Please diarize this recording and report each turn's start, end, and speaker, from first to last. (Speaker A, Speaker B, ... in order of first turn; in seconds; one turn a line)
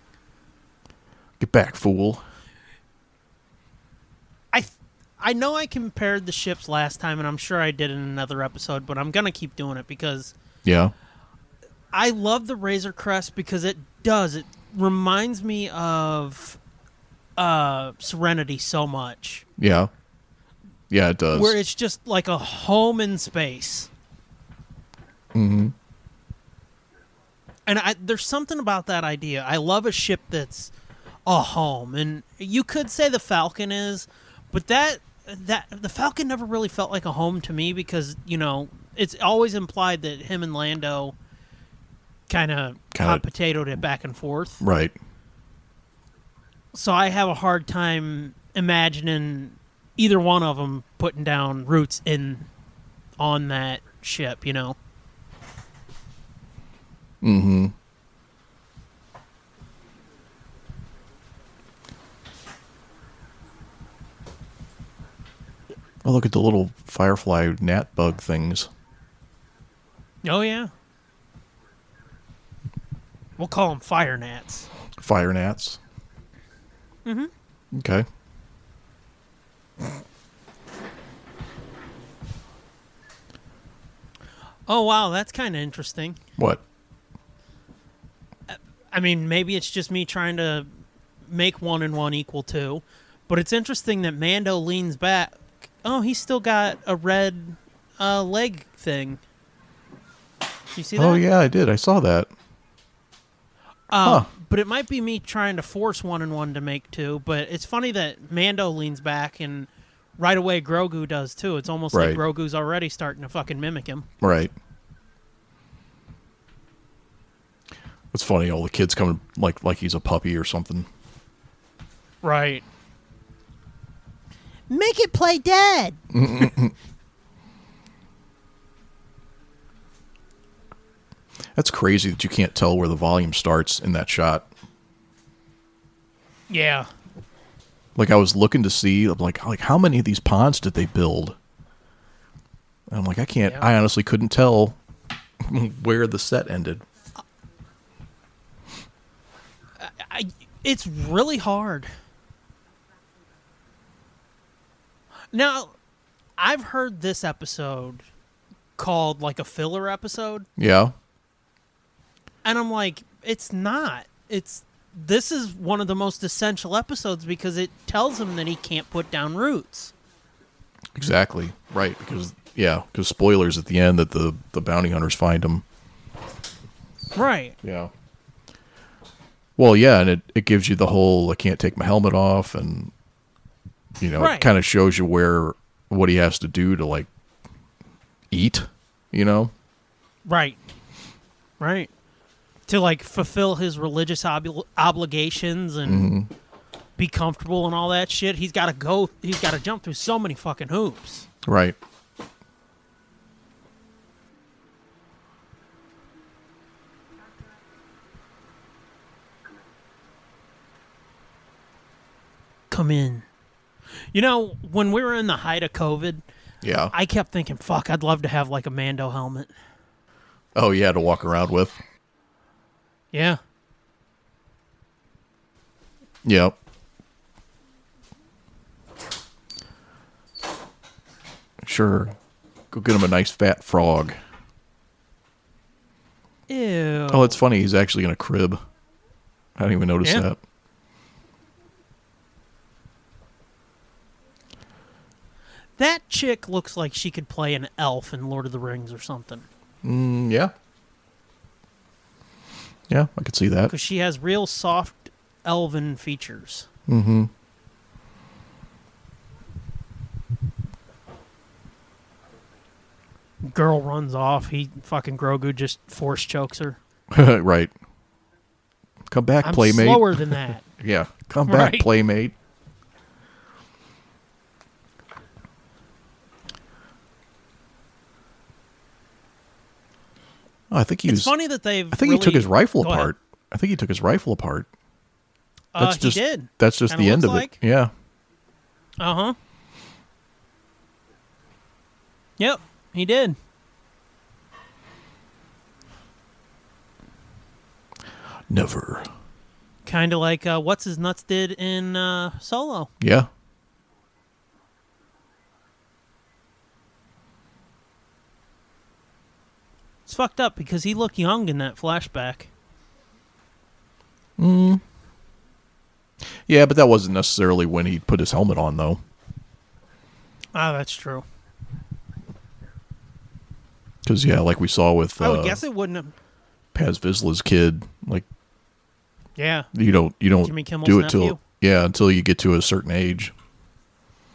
Speaker A: 1.4-2.2
Speaker B: 4.5-10.3
Speaker A: 10.6-10.9
Speaker B: 11.9-16.6
Speaker B: 17.4-19.4
Speaker A: 19.6-19.9
Speaker A: 20.9-21.6
Speaker B: 21.3-23.9
Speaker A: 25.3-25.7
Speaker B: 27.7-30.7
Speaker B: 31.2-41.1
Speaker B: 42.3-44.6
Speaker A: 42.9-43.2
Speaker A: 44.6-44.9
Speaker B: 46.7-52.5
Speaker B: 53.2-54.8
Speaker A: 57.2-57.7
Speaker A: 66.0-68.7
Speaker B: 70.2-70.7
Speaker B: 73.4-74.7
Speaker A: 75.0-75.8
Speaker B: 77.0-77.3
Speaker A: 77.7-78.1
Speaker B: 84.7-86.2
Speaker A: 86.4-86.6
Speaker B: 88.5-90.7
Speaker B: 91.3-99.2
Speaker B: 100.7-101.2
Speaker A: 101.0-102.3
Speaker B: 103.9-114.1
Speaker A: 104.0-104.3
Speaker A: 111.9-112.2
Speaker A: 114.2-114.5
Speaker A: 118.1-120.9
Speaker B: 122.2-122.6
Speaker B: 124.7-126.0
Speaker A: 126.1-126.7
Speaker A: 131.5-134.5
Speaker B: 136.5-136.9
Speaker A: 137.9-141.3
Speaker A: 142.9-144.8
Speaker A: 145.4-146.8
Speaker B: 149.8-151.9
Speaker B: 155.3-155.7
Speaker B: 156.4-158.1
Speaker B: 158.8-160.5
Speaker A: 160.6-160.9
Speaker B: 162.4-169.9
Speaker A: 170.9-175.6
Speaker B: 177.1-177.6
Speaker A: 177.6-177.9
Speaker A: 179.6-182.9
Speaker A: 184.0-187.1
Speaker B: 184.2-184.5
Speaker A: 188.3-189.5
Speaker B: 190.2-190.6
Speaker B: 191.6-191.9
Speaker B: 192.7-196.1
Speaker A: 195.8-196.3
Speaker B: 197.0-201.3
Speaker A: 201.4-201.8
Speaker B: 212.7-213.2
Speaker B: 214.1-216.2
Speaker A: 216.6-216.9
Speaker B: 216.9-219.5
Speaker A: 220.5-221.8
Speaker B: 223.1-223.4
Speaker A: 226.2-226.6
Speaker A: 231.6-232.1
Speaker A: 232.7-234.2
Speaker B: 236.5-237.4
Speaker A: 237.1-238.6
Speaker A: 239.6-240.4
Speaker B: 245.8-249.4
Speaker A: 249.8-250.5
Speaker A: 252.9-253.7
Speaker B: 253.7-256.7
Speaker A: 256.9-257.3
Speaker B: 263.4-266.8
Speaker A: 267.1-267.7
Speaker A: 269.1-272.3
Speaker B: 269.4-270.6
Speaker B: 271.5-271.9
Speaker A: 280.7-281.3
Speaker B: 281.1-283.1
Speaker A: 281.9-284.7
Speaker B: 285.7-287.6
Speaker A: 285.8-287.9
Speaker B: 289.0-289.4
Speaker B: 292.4-293.4
Speaker A: 298.5-299.1
Speaker B: 299.9-302.9
Speaker A: 303.0-303.3
Speaker B: 310.1-312.5
Speaker A: 314.4-314.8
Speaker A: 316.4-319.0
Speaker B: 320.5-321.2
Speaker A: 324.0-325.6
Speaker B: 325.2-326.1
Speaker A: 326.7-328.2
Speaker B: 329.4-329.7
Speaker A: 329.7-333.3
Speaker B: 330.4-331.4